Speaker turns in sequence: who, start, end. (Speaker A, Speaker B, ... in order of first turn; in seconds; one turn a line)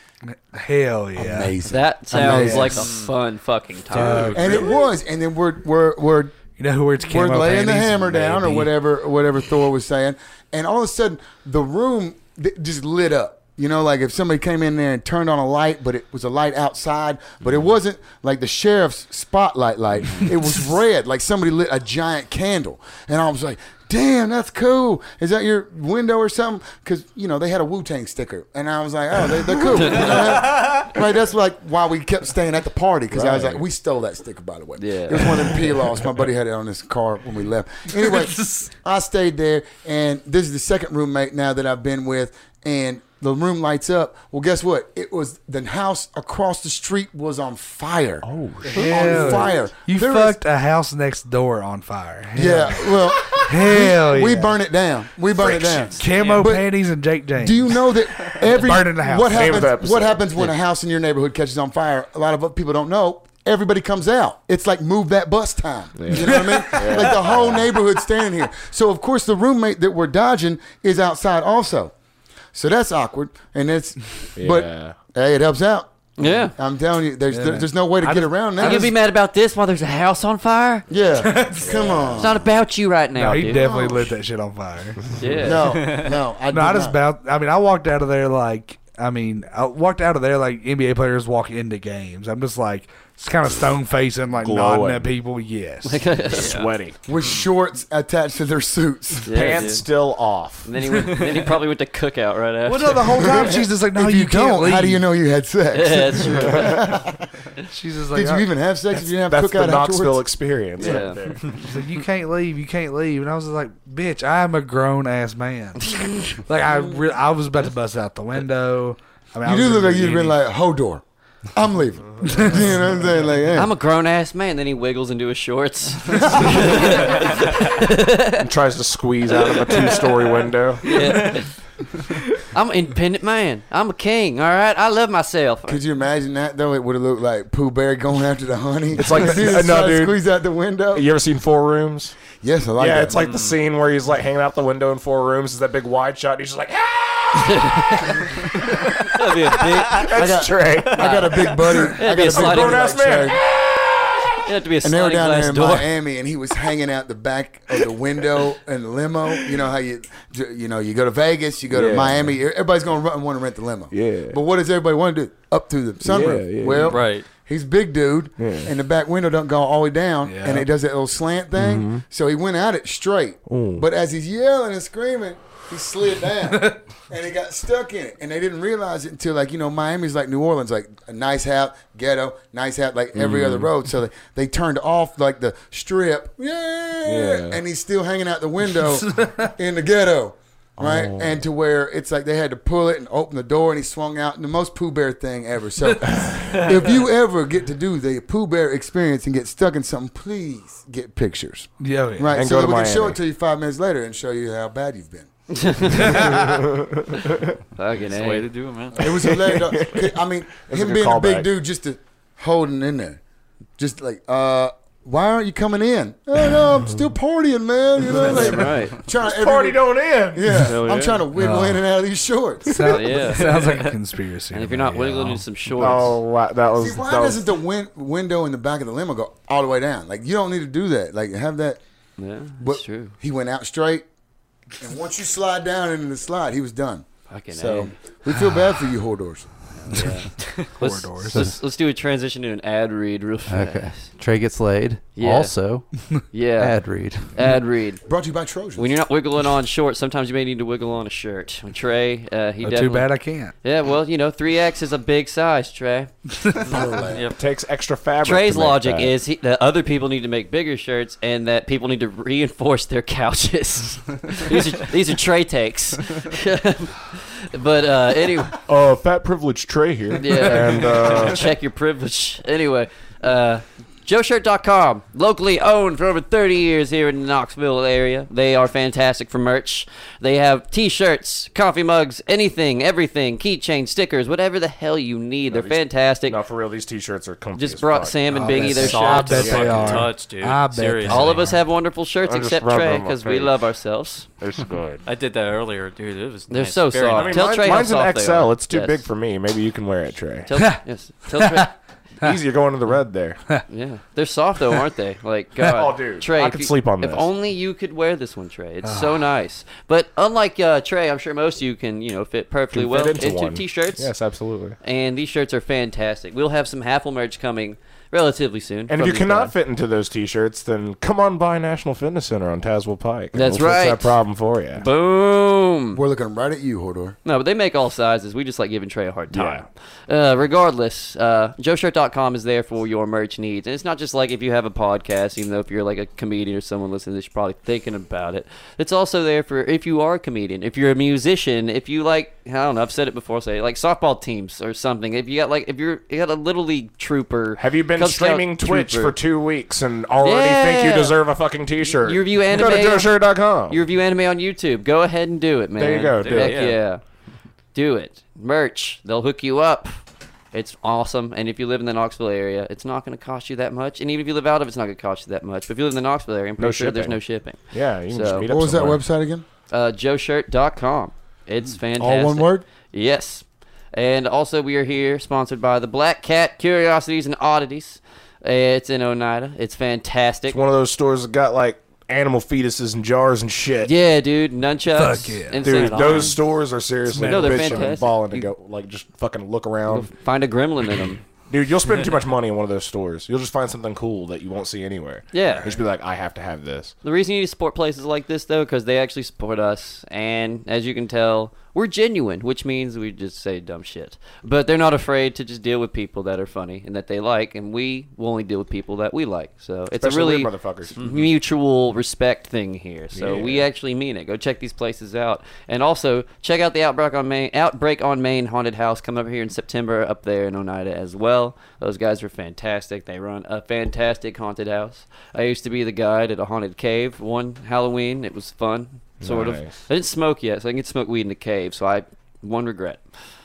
Speaker A: 0.3-1.6
Speaker B: 1.1-2.8
Speaker C: 1.6-4.6
Speaker A: 2.1-2.9
Speaker D: 2.8-3.1
Speaker A: 3.9-4.7
Speaker E: 4.0-4.6
Speaker B: 4.3-6.4
Speaker A: 6.5-8.7
Speaker B: 7.0-50.4
Speaker C: 29.8-30.4
Speaker E: 33.1-33.6
Speaker C: 34.8-35.6
Speaker A: 37.9-38.7
Speaker E: 48.2-49.3
Speaker A: 48.6-54.5
Speaker B: 52.4-71.9
Speaker D: 55.9-56.5
Speaker A: 56.0-57.7
Speaker A: 58.4-59.6
Speaker E: 59.3-60.5
Speaker E: 66.0-67.7
Speaker A: 66.1-67.1
Speaker B: 72.5-75.9
Speaker E: 74.4-75.0
Speaker C: 76.2-76.5
Speaker B: 76.5-78.9
Speaker A: 77.3-78.9
Speaker C: 78.6-80.8
Speaker B: 80.9-82.5
Speaker A: 81.2-82.0
Speaker E: 81.6-82.2
Speaker C: 82.2-83.7
Speaker A: 83.2-85.0
Speaker B: 83.5-84.1
Speaker C: 85.2-85.8
Speaker B: 85.4-87.0
Speaker D: 85.7-86.1
Speaker A: 86.5-96.2
Speaker E: 94.4-95.1
Speaker C: 95.8-96.7
Speaker E: 96.3-97.0
Speaker B: 97.1-99.3
Speaker C: 99.2-99.9
Speaker E: 99.3-100.7
Speaker C: 100.6-103.2
Speaker A: 102.7-105.0
Speaker B: 103.2-107.3
Speaker C: 105.7-106.7
Speaker E: 106.4-106.8
Speaker A: 107.7-108.5
Speaker B: 108.1-110.3
Speaker E: 109.3-111.8
Speaker C: 110.8-111.2
Speaker A: 111.7-120.4
Speaker B: 116.7-117.0
Speaker B: 119.4-123.7
Speaker C: 123.5-128.4
Speaker B: 126.3-126.6
Speaker E: 128.4-130.9
Speaker C: 129.3-130.3
Speaker C: 130.8-131.5
Speaker C: 132.5-135.8
Speaker B: 135.7-141.1
Speaker E: 138.9-140.2
Speaker E: 140.9-142.2
Speaker B: 142.4-143.3
Speaker E: 142.8-154.3
Speaker D: 143.1-143.6
Speaker C: 147.4-150.4
Speaker B: 150.1-153.4
Speaker C: 151.0-152.9
Speaker C: 154.5-155.9
Speaker B: 154.8-206.2
Speaker E: 161.7-162.3
Speaker E: 163.9-164.4
Speaker E: 166.0-167.0
Speaker D: 166.8-167.3
Speaker E: 168.4-168.7
Speaker A: 170.3-170.7
Speaker E: 171.6-172.0
Speaker E: 173.5-173.8
Speaker E: 183.2-183.7
Speaker E: 187.1-187.6
Speaker A: 189.2-189.5
Speaker E: 190.8-191.4
Speaker E: 196.1-196.7
Speaker A: 201.8-202.3
Speaker E: 202.3-203.2
Speaker C: 205.5-206.2
Speaker A: 206.0-206.5
Speaker E: 206.3-207.6
Speaker C: 207.8-208.5
Speaker D: 208.1-209.3
Speaker B: 208.9-213.2
Speaker E: 209.0-211.5
Speaker B: 213.8-223.0
Speaker E: 218.1-221.3
Speaker C: 218.1-219.0
Speaker A: 221.3-221.8
Speaker A: 222.7-225.4
Speaker C: 222.9-223.8
Speaker D: 223.6-223.9
Speaker C: 224.5-226.2
Speaker E: 225.8-227.4
Speaker B: 226.8-231.8
Speaker C: 232.2-233.2
Speaker B: 232.6-234.1
Speaker B: 234.8-239.5
Speaker C: 237.3-237.9
Speaker C: 239.8-244.1
Speaker A: 240.8-241.4
Speaker F: 241.3-241.6
Speaker F: 243.5-245.9
Speaker C: 245.2-245.6
Speaker C: 246.3-246.8
Speaker F: 246.6-247.3
Speaker C: 247.3-248.0
Speaker B: 248.1-248.9
Speaker C: 248.8-257.1
Speaker A: 252.6-253.5
Speaker B: 256.6-257.2
Speaker D: 257.1-257.4
Speaker E: 257.4-259.1
Speaker C: 258.2-268.6
Speaker E: 268.7-271.5
Speaker C: 270.2-286.4
Speaker E: 285.5-290.1
Speaker C: 287.6-289.8
Speaker A: 288.3-291.6
Speaker D: 288.5-291.5
Speaker C: 291.1-294.3
Speaker E: 292.2-293.6
Speaker E: 294.4-295.0
Speaker D: 295.1-297.4
Speaker C: 296.5-299.0
Speaker E: 297.1-300.5
Speaker C: 300.4-301.7
Speaker A: 301.3-301.7
Speaker E: 302.2-303.4
Speaker C: 303.7-314.1
Speaker E: 305.6-307.3
Speaker A: 308.8-309.3
Speaker E: 312.7-314.8
Speaker C: 314.8-319.5
Speaker E: 318.9-324.9
Speaker C: 323.3-324.2
Speaker C: 324.8-326.0
Speaker B: 325.9-327.2
Speaker C: 327.2-349.2
Speaker E: 329.3-329.6
Speaker E: 347.6-353.8
Speaker C: 350.2-351.2
Speaker C: 352.0-357.0
Speaker E: 355.8-356.7
Speaker D: 356.2-356.8
Speaker C: 357.7-360.0
Speaker C: 360.5-368.5
Speaker E: 366.6-369.0
Speaker B: 368.5-369.4
Speaker C: 369.7-380.6
Speaker B: 372.0-372.6
Speaker E: 380.5-383.9
Speaker C: 383.8-386.4
Speaker A: 384.9-385.9
Speaker E: 385.6-390.1
Speaker D: 385.9-386.3
Speaker C: 387.1-388.5
Speaker A: 387.2-387.9
Speaker C: 389.9-391.2
Speaker E: 391.5-396.9
Speaker C: 395.3-395.8
Speaker C: 397.0-433.0
Speaker E: 410.0-411.1
Speaker E: 413.1-413.7
Speaker E: 429.2-429.7